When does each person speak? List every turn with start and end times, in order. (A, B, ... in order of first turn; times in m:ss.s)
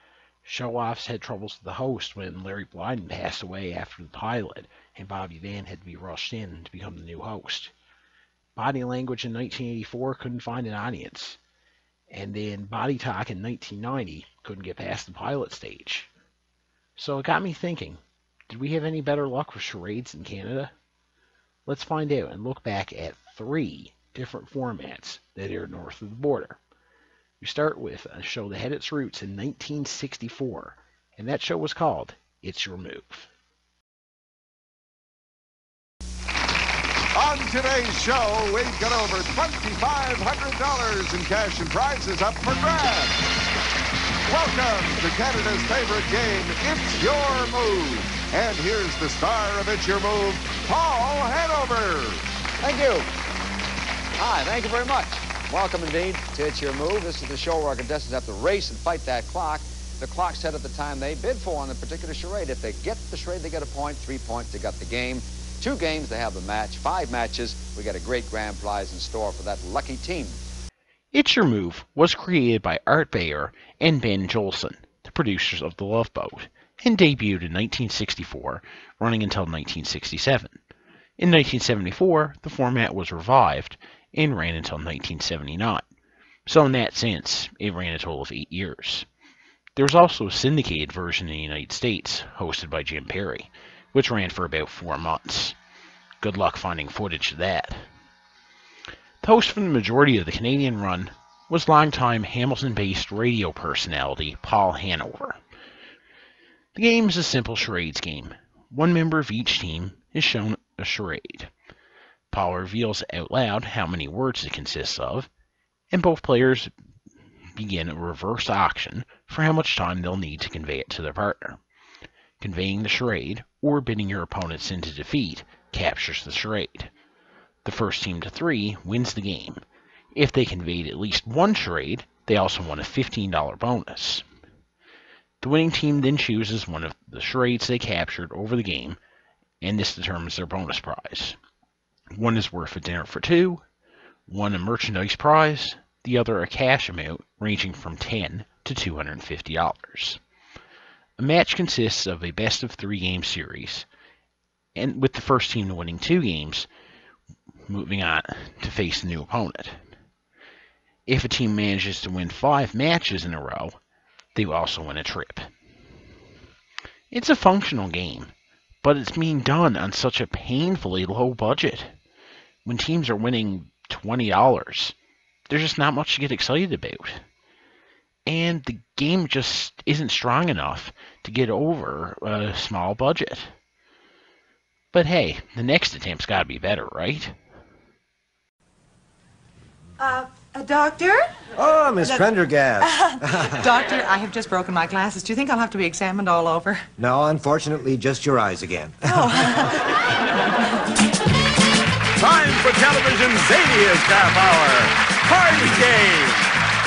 0:00.4-0:07.7 A
0:08.6-0:11.4 A
0:12.1-0:16.1 A
0:17.0-0:20.7 A
0:21.7-0:26.6 A
0:27.4-0:33.3 A
0:37.1-0:43.2 B
0:44.3-0:52.2 B
0:52.6-0:53.0 C
0:54.2-1:10.4 C
1:11.1-1:20.6 A
1:21.2-1:25.9 A
1:26.4-1:29.0 A
1:29.8-1:35.6 A
1:36.2-1:37.8 A
1:39.2-1:45.4 A
1:46.7-1:51.5 A
1:52.3-1:55.3 A
1:55.9-1:56.7 A
1:57.5-2:01.6 A
2:02.4-2:06.9 A
2:07.6-2:09.6 A
2:10.1-2:14.2 A
2:15.4-2:19.0 A
2:19.6-2:21.4 A
2:22.1-2:23.6 A
2:24.3-2:30.2 A
2:31.2-2:33.9 A
2:34.7-2:36.7 A
2:37.7-2:39.8 A
2:41.1-2:43.8 A
2:44.3-2:45.5 A
2:47.1-2:48.3 A
2:48.8-2:51.9 A
2:52.6-2:54.9 A
2:55.5-2:57.2 A
2:58.3-3:03.5 A
3:04.9-3:07.4 A
3:10.0-3:11.5 D
3:11.6-3:13.8 E
3:12.8-3:16.9 D
3:17.0-3:19.5 E
3:19.1-3:19.7 D
3:22.2-3:26.5 F